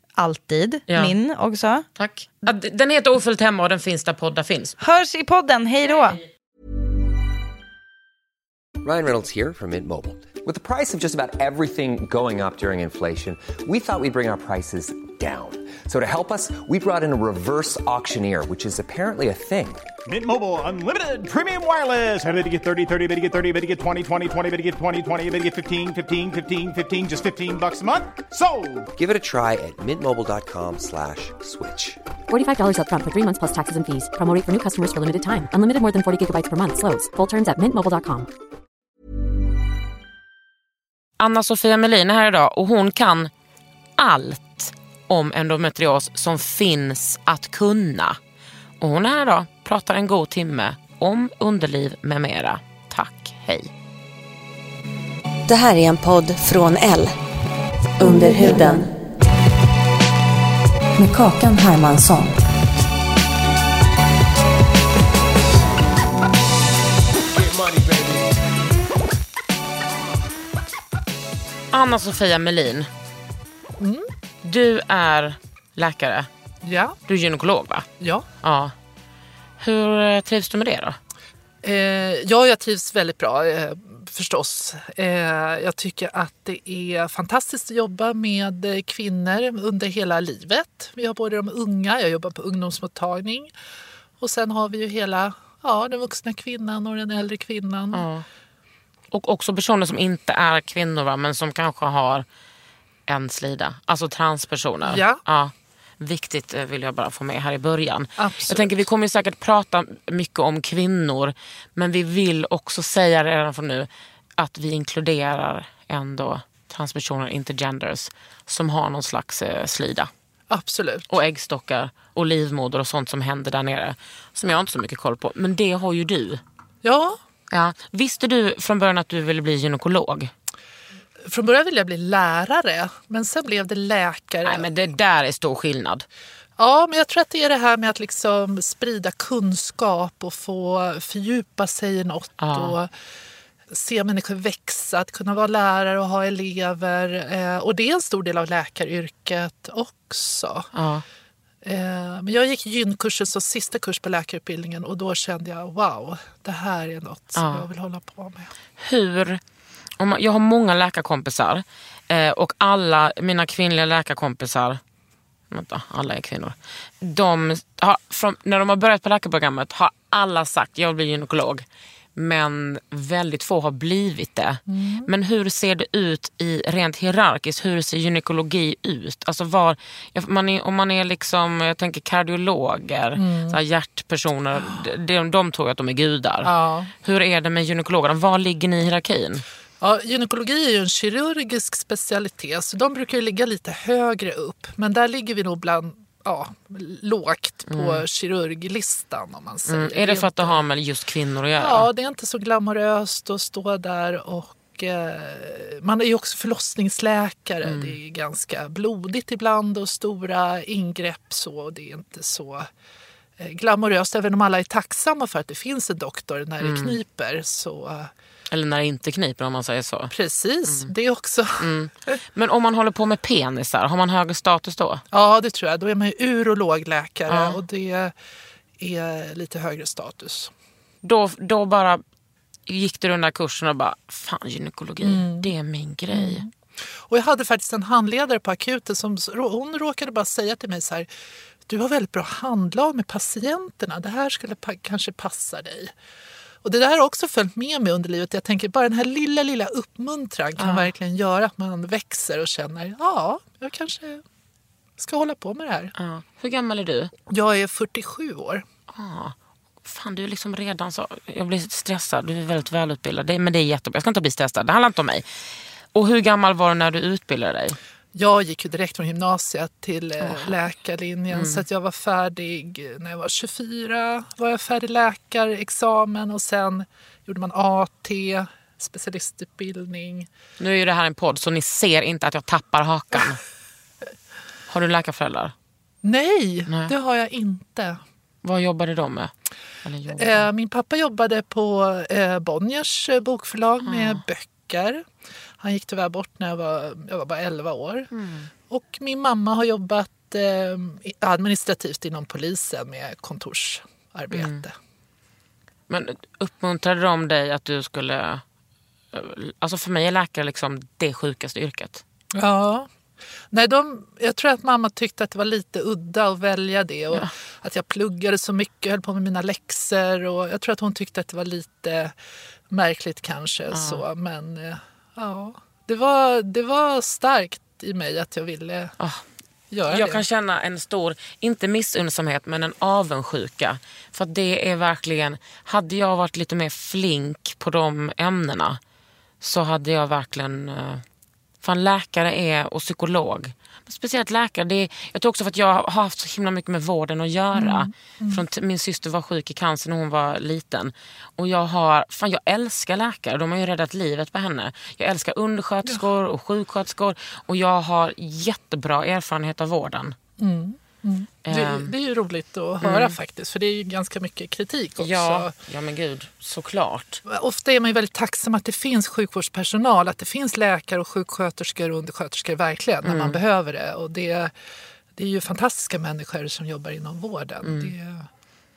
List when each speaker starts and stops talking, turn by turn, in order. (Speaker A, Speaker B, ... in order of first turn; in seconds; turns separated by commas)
Speaker A: 0.2-1.8, Speaker B: 0.9-1.1, Speaker B: 2.0-4.8, Speaker A: 4.8-6.2, Speaker C: 8.8-19.9, Speaker D: 20.1-28.9, Speaker C: 28.9-32.0, Speaker E: 32.3-38.3, Speaker B: 41.2-43.3, Speaker B: 44.0-48.2, Speaker B: 48.8-53.7, Speaker F: 55.5-57.2, Speaker F: 58.0-58.9, Speaker F: 61.0-62.4, Speaker D: 67.3-68.1, Speaker B: 71.7-72.9, Speaker G: 73.8-74.1, Speaker B: 74.4-76.3, Speaker G: 76.6-77.0, Speaker B: 77.1-77.9, Speaker G: 78.0-78.3, Speaker B: 78.4-78.7, Speaker B: 79.6-81.0, Speaker G: 81.6-93.5, Speaker G: 94.2-98.1, Speaker B: 97.9-98.2, Speaker B: 99.1-102.2, Speaker B: 103.1-120.1, Speaker G: 104.8-105.2, Speaker G: 108.2-108.8, Speaker G: 120.5-121.1, Speaker B: 121.1-126.4, Speaker G: 126.8-127.2, Speaker B: 127.5-130.3, Speaker G: 131.2-134.7, Speaker B: 134.4-136.0, Speaker G: 136.6-142.9, Speaker B: 142.4-142.8, Speaker G: 143.7-150.7, Speaker B: 150.7-151.0, Speaker G: 151.6-158.5, Speaker B: 157.3-157.7, Speaker B: 158.8-159.4, Speaker B: 160.0-164.8, Speaker B: 165.5-186.5, Speaker G: 174.7-175.1, Speaker G: 183.1-183.6, Speaker G: 186.4-186.9, Speaker B: 187.0-189.4, Speaker G: 189.8-200.6, Speaker B: 197.7-198.0, Speaker B: 199.7-201.9, Speaker G: 201.6-212.7, Speaker B: 207.6-208.0, Speaker G: 213.4-218.1, Speaker B: 216.6-217.0, Speaker B: 218.5-220.1, Speaker G: 220.1-222.2, Speaker B: 221.6-225.0, Speaker G: 225.1-228.1, Speaker B: 227.3-227.6, Speaker G: 228.8-230.5, Speaker B: 231.0-232.0, Speaker B: 232.7-236.4, Speaker G: 235.0-235.5, Speaker G: 236.1-241.1, Speaker G: 241.7-245.9, Speaker G: 246.6-254.2, Speaker B: 250.6-250.9, Speaker G: 255.0-255.9, Speaker B: 255.9-257.1, Speaker G: 257.3-258.6, Speaker B: 258.9-265.2, Speaker B: 265.9-267.8, Speaker G: 268.1-280.3, Speaker B: 270.2-270.5, Speaker B: 271.3-271.6, Speaker B: 280.6-283.4, Speaker B: 284.7-285.5, Speaker G: 286.0-288.0, Speaker B: 286.7-286.9, Speaker B: 288.4-289.3, Speaker B: 289.8-290.5, Speaker G: 290.1-295.1, Speaker B: 293.8-294.2, Speaker G: 295.6-298.1, Speaker B: 298.1-298.5, Speaker G: 298.7-304.7, Speaker B: 304.3-304.6, Speaker B: 305.9-308.4, Speaker B: 309.1-312.0, Speaker G: 312.3-312.9, Speaker G: 313.5-322.1, Speaker G: 322.7-328.9, Speaker B: 323.7-324.0, Speaker G: 329.7-330.2, Speaker B: 329.9-338.8, Speaker B: 339.4-341.0, Speaker B: 341.6-360.1, Speaker G: 347.5-348.4, Speaker G: 360.4-365.5, Speaker B: 361.4-361.9, Speaker B: 362.8-363.1, Speaker B: 365.0-367.2, Speaker G: 367.2-374.5, Speaker B: 373.0-373.4, Speaker G: 375.1-378.3, Speaker B: 377.6-377.9